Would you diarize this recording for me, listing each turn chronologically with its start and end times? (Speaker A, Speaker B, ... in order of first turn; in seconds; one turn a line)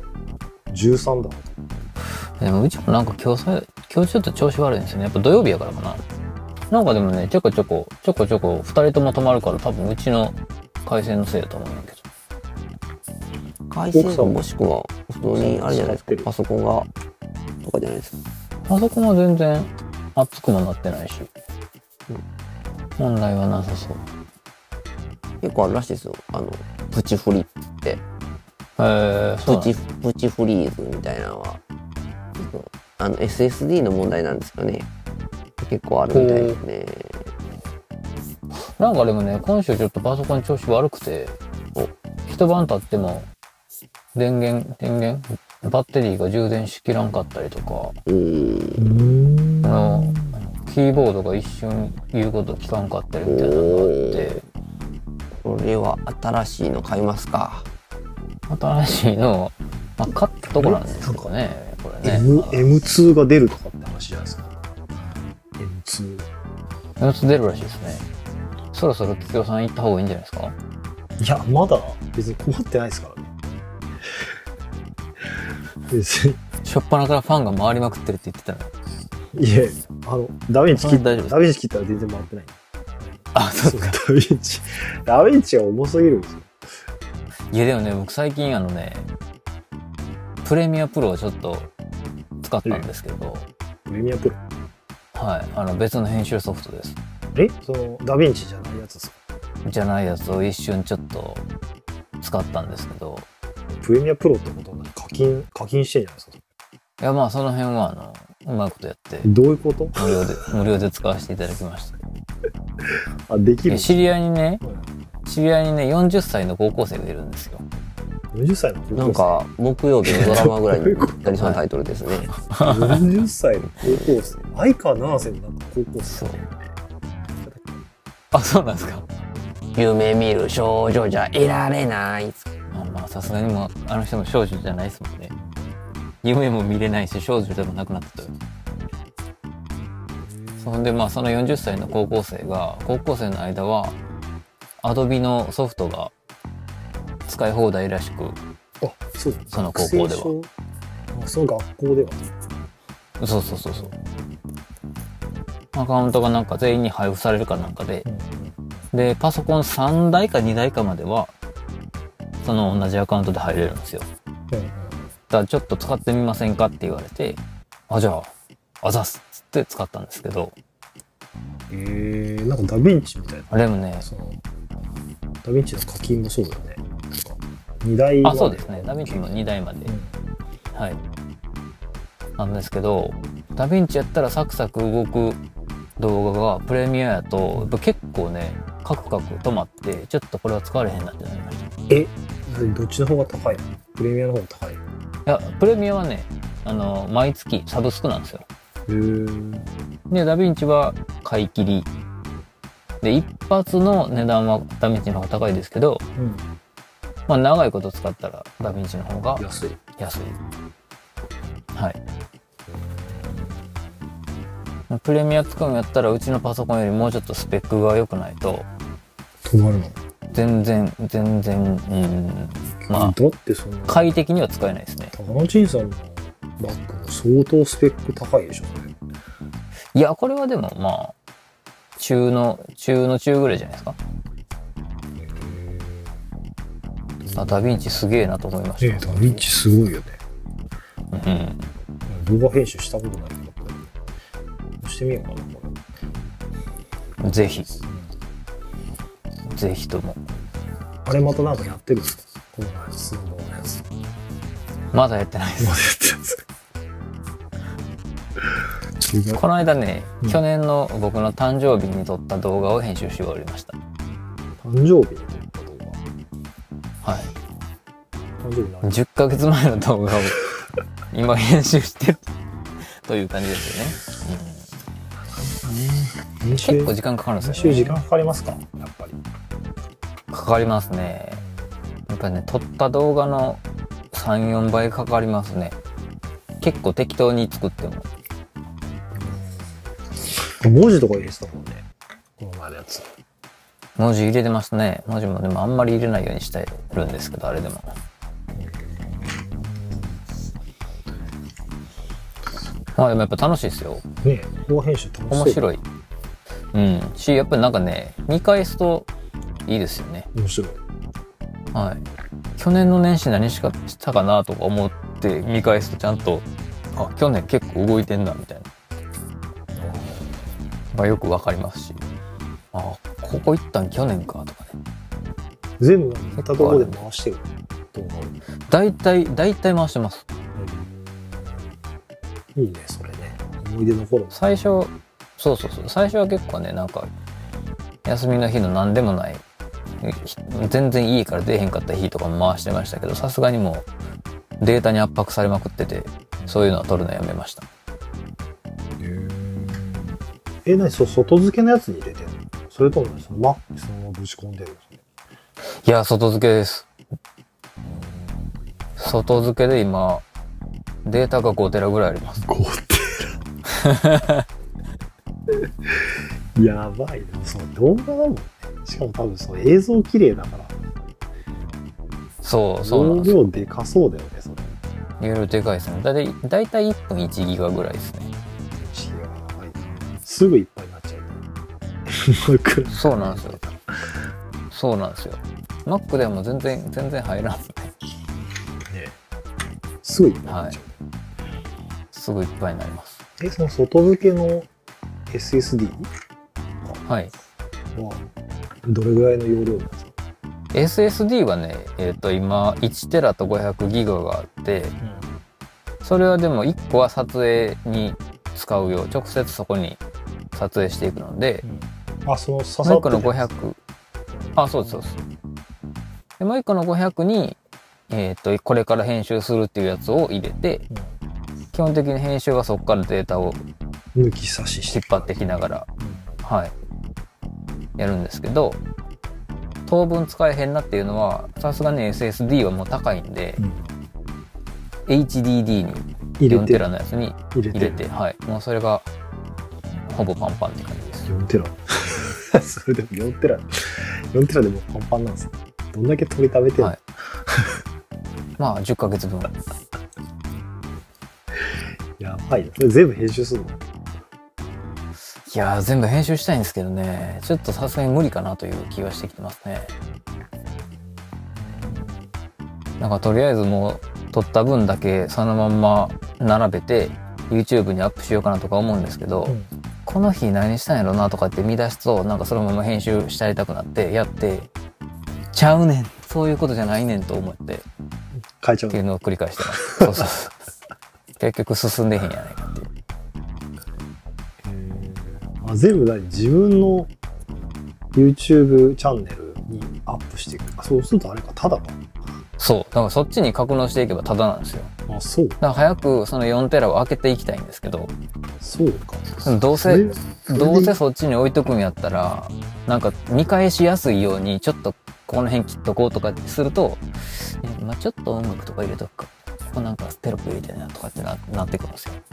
Speaker A: 0.7-1.6
Speaker B: 2.4-6.0
Speaker B: 6.7-12.0
Speaker C: 13.7-16.9
Speaker A: 13.9-14.4
Speaker A: 15.3-16.3
Speaker C: 17.6-18.2
Speaker B: 18.6-21.3
Speaker B: 23.0-24.1
Speaker C: 25.4-28.0
Speaker B: 28.8-29.7
Speaker C: 29.4-31.6
Speaker C: 32.4-34.9
Speaker C: 35.6-37.3
Speaker B: 36.1-36.6
Speaker B: 38.6-41.4
Speaker B: 42.2-43.3
Speaker B: 44.1-48.0
Speaker C: 48.0-48.9
Speaker A: 48.8-50.4
Speaker B: 49.6-54.4
Speaker C: 53.2-54.4
Speaker C: 55.4-57.7
Speaker B: 58.5-62.7
Speaker A: 60.5-61.3
Speaker A: 62.0-64.6
Speaker A: 65.6-66.3
Speaker B: 67.0-68.0
Speaker B: 68.7-70.5
Speaker A: 71.2-73.3
Speaker A: 75.9-76.4
Speaker B: 76.6-78.7
Speaker A: 79.3-86.5
Speaker B: 80.7-81.4
Speaker B: 83.3-84.0
Speaker B: 87.5-89.1
Speaker B: 90.4-91.7
Speaker B: 92.4-93.5
Speaker A: 93.9-94.4
Speaker B: 95.1-97.0
Speaker A: 97.3-99.2
Speaker B: 99.6-101.4
Speaker B: 102.2-103.3
Speaker A: 103.8-106.4
Speaker B: 107.0-109.3
Speaker A: 109.2-110.0
Speaker B: 110.0-111.9
Speaker A: 112.8-114.1
Speaker B: 113.7-114.6
Speaker A: 114.6-114.9
Speaker B: 115.2-117.6
Speaker A: 118.3-119.4
Speaker C: 118.9-122.3
Speaker A: 120.0-121.3
Speaker B: 120.1-120.5
Speaker B: 122.3-123.0
Speaker A: 122.6-126.7
Speaker B: 126.1-126.4
Speaker A: 127.4-127.8
Speaker B: 128.3-129.1
Speaker C: 129.7-132.4
Speaker B: 132.7-135.3
Speaker B: 136.2-138.3
Speaker A: 140.2-140.8
Speaker B: 140.6-144.0
Speaker B: 144.8-146.1
Speaker B: 147.2-148.4
Speaker A: 148.8-150.5
Speaker B: 149.5-150.3
Speaker A: 151.1-152.2
Speaker B: 153.2-153.9
Speaker A: 153.7-154.0
Speaker B: 155.7-158.1
Speaker A: 158.1-158.8
Speaker B: 158.9-161.3
Speaker B: 162.4-164.1
Speaker A: 164.5-165.1
Speaker B: 165.3-170.6
Speaker A: 171.7-174.4
Speaker B: 173.5-174.1
Speaker A: 175.4-180.1
Speaker B: 178.2-179.9
Speaker B: 180.7-181.0
Speaker B: 182.4-185.4
Speaker B: 186.0-191.7
Speaker A: 191.9-194.8
Speaker B: 195.2-198.5
Speaker A: 198.9-199.7
Speaker B: 200.1-201.9
Speaker B: 203.0-206.0
Speaker A: 206.2-206.5
Speaker B: 207.3-210.4
Speaker A: 209.4-209.8
Speaker A: 212.7-213.7
Speaker B: 214.9-218.7
Speaker A: 219.4-220.0
Speaker B: 220.3-223.2
Speaker A: 222.8-224.0
Speaker B: 223.8-225.1
Speaker A: 225.1-228.9
Speaker B: 229.9-231.1
Speaker B: 232.0-234.0
Speaker A: 235.2-236.2
Speaker A: 237.2-237.8
Speaker B: 237.3-239.4
Speaker A: 238.8-240.2
Speaker B: 241.1-241.7
Speaker A: 242.1-243.9
Speaker A: 244.8-245.8
Speaker B: 247.2-247.7
Speaker A: 247.8-248.1
Speaker B: 249.5-250.2
Speaker A: 251.1-253.9
Speaker B: 254.9-255.8
Speaker A: 255.6-256.4
Speaker A: 259.0-259.4
Speaker B: 259.3-263.8
Speaker A: 264.6-266.0
Speaker B: 267.0-267.3
Speaker A: 268.4-269.0
Speaker B: 268.8-270.4
Speaker B: 271.1-272.2
Speaker B: 272.8-274.6
Speaker A: 275.3-279.2
Speaker B: 276.5-278.0
Speaker B: 280.3-281.4
Speaker A: 281.3-281.7
Speaker B: 282.1-285.8
Speaker B: 286.6-288.1
Speaker A: 289.1-289.9
Speaker A: 290.6-291.9
Speaker A: 292.4-293.1
Speaker B: 293.9-297.9
Speaker A: 298.5-300.1
Speaker B: 302.9-304.0
Speaker A: 304.2-305.7
Speaker B: 305.3-305.8
Speaker B: 306.7-309.1
Speaker B: 309.6-310.3
Speaker A: 310.3-310.8
Speaker B: 311.7-312.1
Speaker B: 312.6-318.7
Speaker A: 319.7-320.4
Speaker B: 320.9-322.0
Speaker B: 322.7-324.8
Speaker A: 325.8-328.4
Speaker B: 326.3-327.0
Speaker B: 328.7-330.2
Speaker A: 330.6-331.7
Speaker A: 332.6-334.4
Speaker B: 334.3-337.1
Speaker B: 338.0-339.4
Speaker B: 340.0-343.9
Speaker B: 344.6-347.6
Speaker A: 346.4-346.8
Speaker A: 349.0-355.0
Speaker B: 355.8-356.9
Speaker A: 357.9-358.2
Speaker B: 359.0-360.2
Speaker B: 361.1-362.4
Speaker A: 362.4-363.4
Speaker B: 363.8-364.4
Speaker A: 365.9-370.8
Speaker B: 372.4-373.5
Speaker A: 372.8-374.7
Speaker B: 375.2-378.3
Speaker A: 378.8-381.4
Speaker A: 382.1-383.8
Speaker B: 382.9-383.6
Speaker B: 384.7-387.9
Speaker A: 388.9-389.2
Speaker A: 390.0-391.0
Speaker B: 390.4-390.8
Speaker B: 392.1-393.2
Speaker A: 393.4-394.7
Speaker A: 395.3-396.1
Speaker B: 397.1-397.3
Speaker A: 397.9-398.3
Speaker A: 398.8-400.1
Speaker B: 400.7-404.9
Speaker A: 405.0-405.3
Speaker B: 406.0-410.0
Speaker B: 410.5-411.6
Speaker A: 411.6-413.7
Speaker B: 412.8-413.8
Speaker A: 414.3-415.2
Speaker B: 414.5-415.2
Speaker B: 416.4-417.6
Speaker B: 418.1-420.8
Speaker B: 421.7-423.6
Speaker A: 424.1-425.4
Speaker B: 424.9-425.9
Speaker A: 426.0-426.3
Speaker B: 426.4-426.7
Speaker B: 428.0-428.8
Speaker B: 429.9-433.6
Speaker A: 433.6-433.9
Speaker B: 435.1-439.1
Speaker A: 436.4-436.9
Speaker A: 437.5-438.1
Speaker B: 440.0-441.3
Speaker A: 441.2-447.8
Speaker B: 448.6-449.6
Speaker A: 452.2-453.8
Speaker B: 455.4-459.9
Speaker A: 460.8-462.3
Speaker B: 463.0-474.7
Speaker B: 475.5-477.9
Speaker A: 478.6-479.0
Speaker B: 478.9-480.5
Speaker A: 479.6-480.1
Speaker B: 481.4-482.9
Speaker A: 484.6-487.1
Speaker A: 488.1-492.0
Speaker B: 492.6-494.9
Speaker A: 495.1-495.6
Speaker B: 495.6-498.1
Speaker A: 498.6-501.0
Speaker B: 499.4-512.2